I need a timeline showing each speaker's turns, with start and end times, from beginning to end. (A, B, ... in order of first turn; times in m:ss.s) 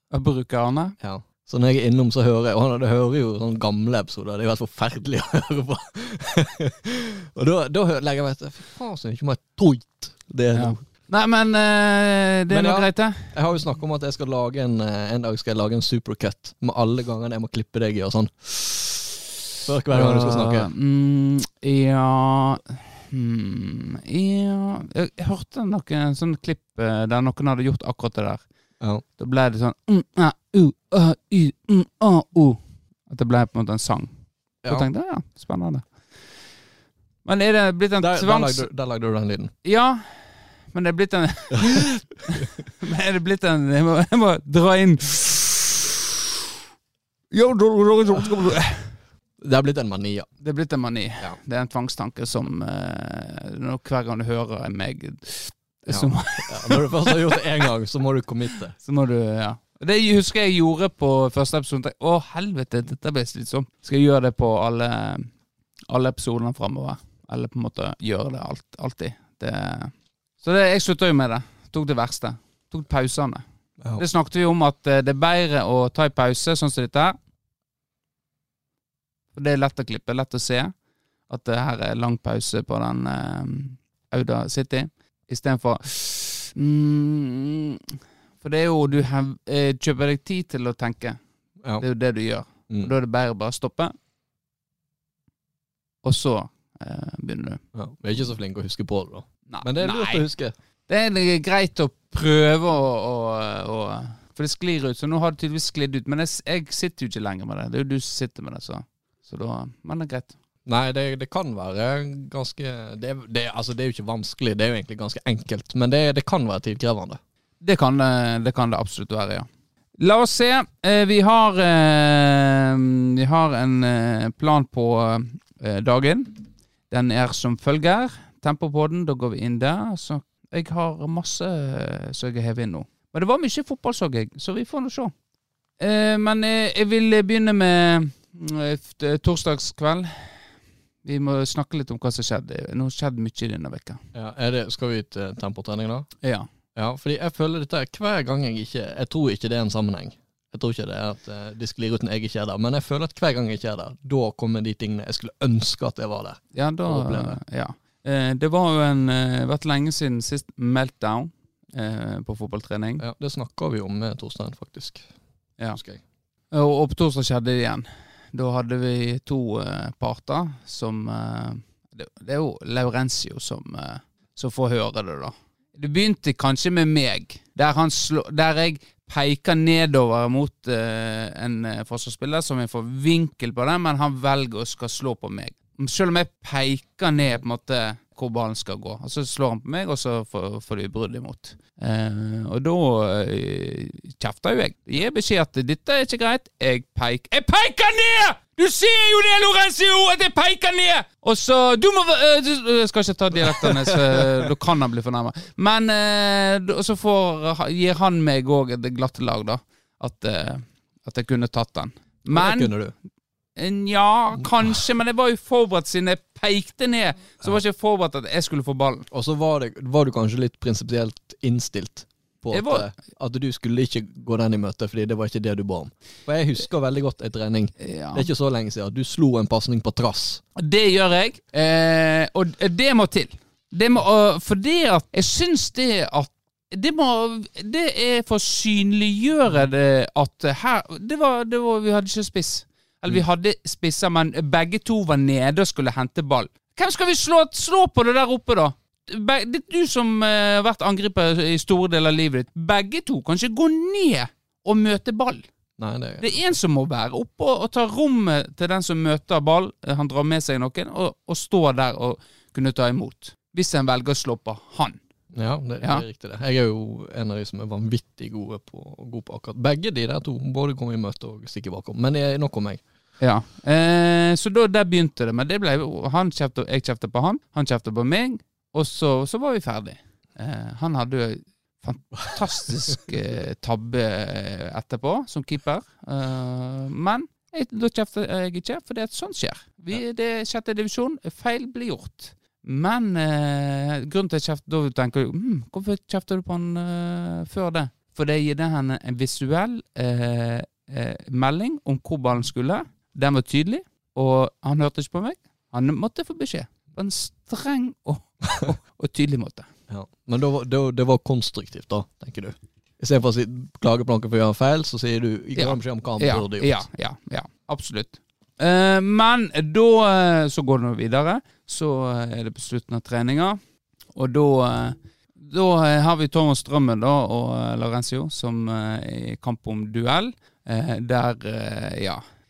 0:00.1-0:00.9 A
0:01.0-0:10.8 B
0:10.5-0:13.3 A
0:12.5-0:19.1 B
0:19.6-0:20.7 B
0:19.9-0:36.4 A
0:34.6-0:34.9 B
0:37.2-0:38.7 A
0:38.0-0:39.5 B
0:39.6-0:45.8 A
0:47.3-0:49.0 A
0:49.4-0:50.4 B
0:50.4-0:57.4 A
0:55.9-0:58.8 B
0:58.8-1:05.3 A
1:05.9-1:13.4 A
1:14.0-1:17.2 A
1:19.3-1:20.7 A
1:21.3-1:27.8 A
1:28.4-1:31.2 A
1:31.8-1:33.9 A
1:32.7-1:32.9 B
1:36.0-1:37.6 A
1:37.7-1:40.5 B
1:39.5-1:40.3 A
1:40.9-1:50.4 A
1:50.6-1:57.2 B
1:57.6-1:59.5 A
2:00.0-2:15.1 A
2:15.8-2:20.5 A
2:21.0-2:24.0 A
2:24.1-2:26.2 B
2:26.2-2:26.5 A
2:26.7-2:37.4 B
2:36.5-2:43.0 A
2:43.0-2:45.1 B
2:45.7-2:46.0 B
2:46.5-3:32.7 A
3:23.4-3:24.3 B
3:32.3-3:32.9 B
3:33.6-3:39.1 A
3:39.1-3:50.4 B
3:42.5-3:42.9 A
3:47.8-3:48.3 A
3:50.6-4:15.5 A
4:15.8-4:16.2 B
4:16.2-4:25.0 A
4:25.3-4:32.8 B
4:33.2-5:09.7 A
5:09.9-5:16.8 B
5:15.6-5:23.6 A
5:24.1-5:32.2 A